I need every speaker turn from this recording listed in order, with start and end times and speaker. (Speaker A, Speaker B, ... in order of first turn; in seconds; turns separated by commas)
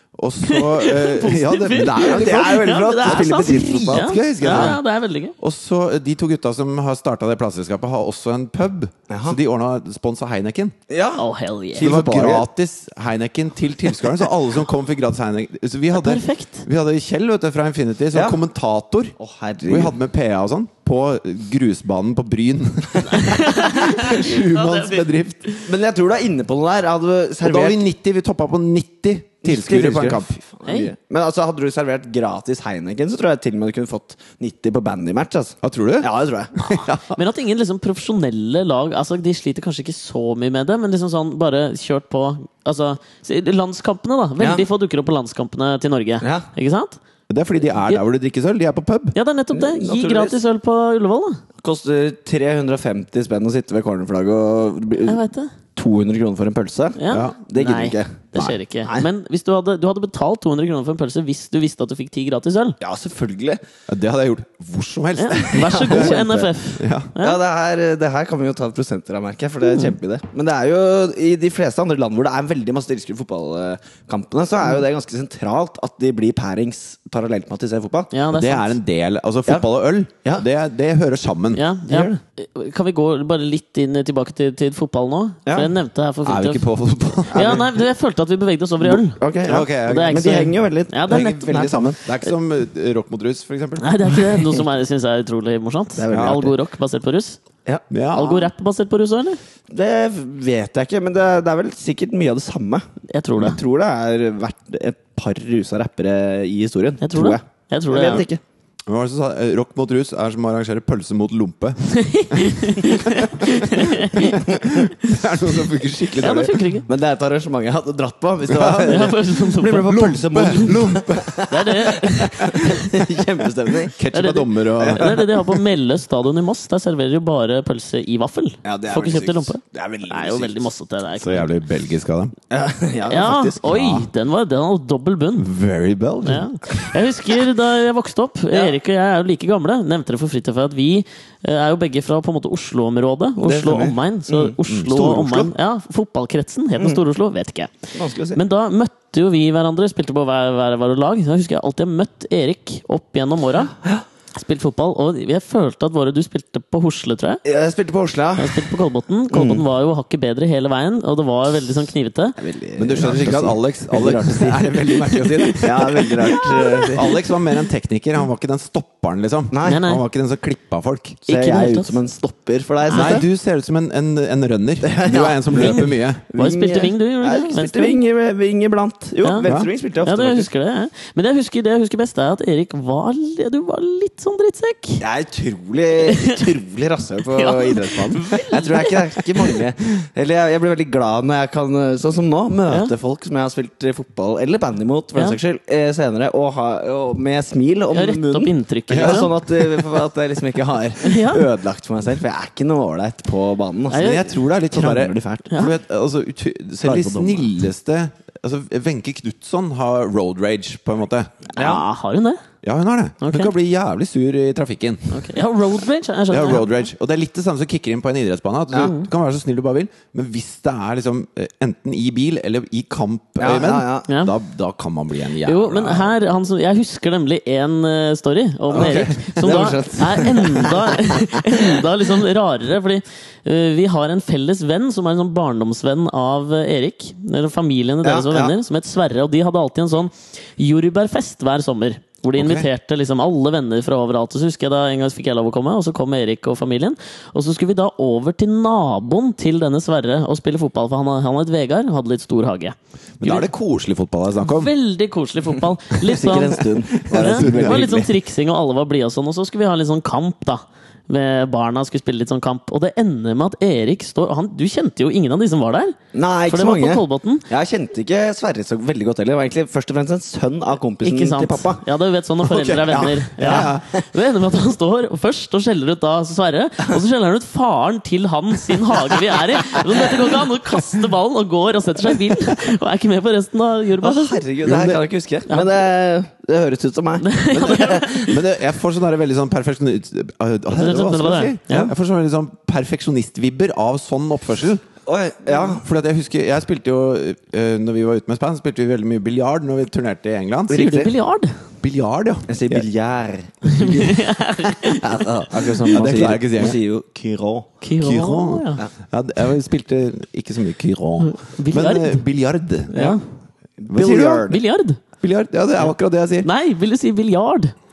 Speaker A: 0.1-4.8, Speaker B: 0.4-5.3, Speaker C: 1.9-4.8, Speaker A: 5.4-10.8, Speaker C: 9.1-9.4, Speaker C: 10.9-12.5, Speaker B: 11.2-11.9, Speaker A: 11.8-19.1, Speaker B: 15.9-16.6, Speaker C: 18.1-18.4, Speaker C: 19.2-19.9, Speaker A: 19.7-25.5, Speaker B: 23.1-25.6, Speaker C: 25.6-27.8, Speaker A: 27.4-30.3, Speaker C: 29.4-36.9, Speaker A: 35.6-37.2, Speaker B: 37.1-47.0, Speaker C: 44.4-44.6, Speaker C: 46.2-46.5, Speaker A: 47.3-49.1, Speaker B: 49.1-51.4, Speaker C: 49.5-50.4, Speaker C: 51.6-55.2, Speaker B: 55.0-55.5, Speaker C: 55.8-58.2, Speaker B: 57.0-62.8, Speaker A: 57.1-57.4, Speaker C: 58.8-59.1, Speaker C: 62.8-63.6, Speaker A: 63.9-67.1, Speaker B: 65.2-67.4, Speaker C: 65.5-66.5, Speaker C: 67.2-78.1, Speaker B: 69.6-69.9, Speaker B: 78.1-78.8, Speaker A: 78.3-81.6, Speaker B: 81.5-86.6, Speaker C: 81.9-82.2, Speaker C: 85.5-85.7, Speaker A: 86.2-87.7, Speaker B: 87.3-92.3, Speaker C: 87.3-87.7, Speaker C: 88.8-92.0, Speaker A: 89.4-90.2, Speaker A: 91.1-94.2, Speaker B: 93.8-97.4, Speaker C: 96.0-96.5, Speaker A: 96.1-96.5, Speaker C: 97.6-98.5, Speaker A: 97.9-98.4, Speaker B: 98.1-99.4, Speaker C: 99.7-102.8, Speaker B: 103.1-103.6, Speaker C: 103.4-108.4, Speaker B: 107.0-108.2, Speaker A: 108.9-116.6, Speaker B: 111.9-114.4, Speaker B: 116.2-116.8, Speaker C: 116.9-124.0, Speaker A: 118.5-119.0, Speaker B: 118.8-120.0, Speaker A: 119.8-121.5, Speaker B: 121.5-122.9, Speaker A: 123.9-125.2, Speaker B: 124.1-131.5, Speaker C: 124.9-125.2, Speaker C: 128.6-130.7, Speaker A: 131.2-132.3, Speaker C: 132.5-133.6, Speaker B: 133.1-135.5, Speaker A: 133.6-134.1, Speaker A: 135.4-136.5, Speaker B: 136.2-147.7, Speaker C: 143.4-144.6, Speaker A: 144.7-145.5, Speaker C: 147.9-148.4, Speaker B: 148.3-153.7, Speaker B: 154.3-157.4, Speaker C: 157.4-158.7, Speaker B: 158.4-162.4, Speaker C: 159.3-159.6, Speaker C: 162.4-164.7, Speaker A: 162.8-171.2, Speaker B: 164.9-167.0, Speaker C: 165.6-167.2, Speaker C: 169.5-169.8, Speaker B: 169.6-170.0, Speaker C: 171.2-173.2, Speaker B: 171.3-172.0, Speaker B: 172.9-173.2, Speaker A: 172.9-176.2, Speaker C: 174.8-180.5, Speaker B: 175.5-178.0, Speaker B: 179.2-179.5, Speaker B: 180.0-185.0, Speaker C: 185.0-205.5, Speaker B: 185.9-186.4, Speaker B: 187.3-189.6, Speaker B: 197.9-199.3, Speaker A: 198.9-199.6, Speaker B: 201.0-201.5, Speaker B: 203.9-204.3, Speaker A: 203.9-211.3, Speaker C: 206.8-207.5, Speaker C: 211.6-211.8, Speaker B: 211.6-212.4, Speaker A: 212.6-215.2, Speaker B: 213.2-213.5, Speaker B: 215.1-216.6, Speaker A: 216.3-226.1, Speaker B: 218.8-219.1, Speaker C: 223.4-224.1, Speaker B: 224.1-224.3, Speaker B: 225.4-253.5, Speaker A: 228.7-229.1, Speaker C: 228.7-231.8, Speaker C: 238.0-238.5, Speaker A: 242.3-242.7, Speaker A: 253.2-254.7, Speaker B: 254.4-266.0, Speaker C: 256.0-258.1, Speaker A: 257.1-257.9, Speaker C: 266.1-271.8, Speaker B: 266.5-267.4, Speaker B: 271.0-284.4, Speaker A: 272.4-273.9, Speaker C: 273.0-273.9, Speaker C: 279.7-280.2, Speaker C: 284.0-288.4, Speaker A: 284.6-285.0, Speaker B: 285.5-285.8, Speaker B: 287.2-288.4, Speaker A: 288.2-294.8, Speaker B: 290.7-291.9, Speaker C: 295.1-295.8, Speaker A: 295.6-301.1, Speaker B: 300.7-301.6, Speaker A: 301.8-302.9, Speaker C: 302.5-307.7, Speaker B: 303.6-306.3, Speaker A: 305.9-306.8, Speaker B: 307.8-308.8, Speaker A: 308.0-313.2, Speaker B: 311.2-312.2, Speaker B: 312.9-313.2, Speaker C: 313.8-314.6, Speaker A: 313.9-314.5, Speaker B: 314.5-315.0, Speaker A: 315.2-316.5, Speaker B: 316.4-317.7